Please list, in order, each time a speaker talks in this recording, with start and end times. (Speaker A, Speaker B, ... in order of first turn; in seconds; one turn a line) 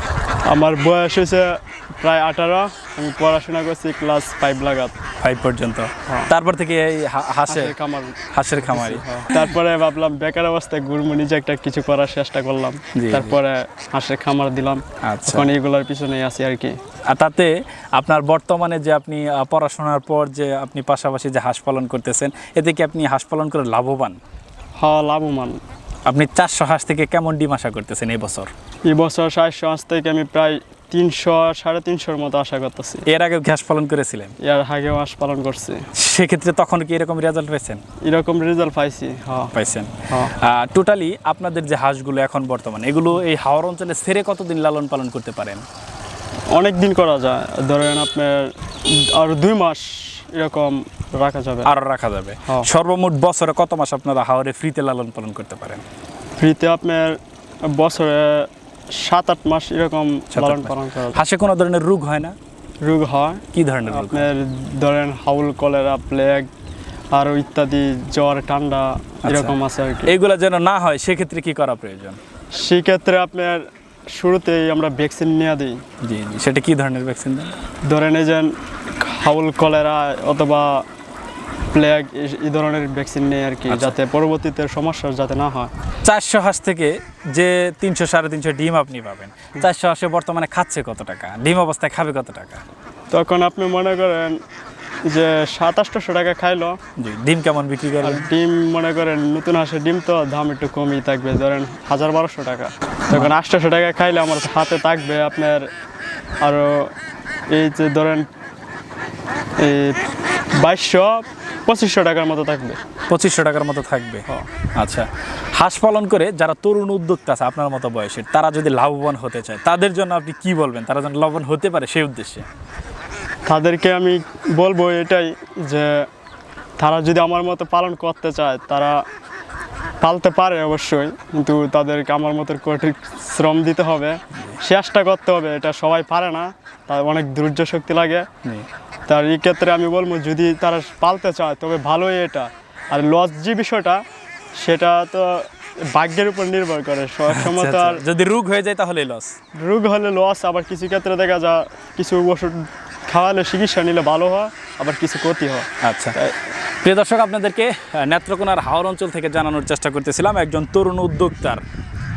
Speaker A: 0.5-4.9
Speaker B: 5.2-7.7
Speaker A: 6.1-6.3
Speaker A: 7.5-16.8
Speaker B: 8.3-9.5
Speaker B: 12.9-13.4
Speaker B: 15.0-15.5
Speaker B: 17.1-24.2
Speaker A: 24.8-25.6
Speaker B: 26.1-28.5
Speaker A: 28.9-33.0
Speaker B: 33.0-34.3
Speaker A: 34.4-35.9
Speaker B: 35.9-37.8
Speaker A: 38.0-39.5
Speaker B: 39.5-45.6
Speaker A: 40.1-40.3
Speaker A: 46.5-51.7
Speaker B: 51.6-55.8
Speaker A: 56.4-61.2
Speaker B: 60.3-62.4
Speaker A: 62.8-66.5
Speaker B: 63.5-64.3
Speaker A: 67.1-70.1
Speaker B: 69.2-69.5
Speaker B: 70.0-72.2
Speaker A: 72.5-75.8
Speaker B: 76.0-77.5
Speaker A: 77.8-80.8
Speaker A: 81.7-85.7
Speaker B: 83.7-83.9
Speaker B: 86.0-92.6
Speaker A: 93.1-94.4
Speaker A: 95.0-96.8
Speaker B: 97.0-98.3
Speaker A: 98.0-105.7
Speaker A: 106.4-106.9
Speaker A: 107.5-108.3
Speaker A: 109.6-110.0
Speaker A: 110.5-112.8
Speaker B: 113.1-122.5
Speaker A: 123.5-126.1
Speaker A: 126.8-129.0
Speaker A: 130.0-138.3
Speaker A: 139.1-144.0
Speaker A: 144.5-148.0
Speaker B: 147.3-149.3
Speaker A: 149.5-156.3
Speaker B: 155.8-156.2
Speaker B: 156.8-161.6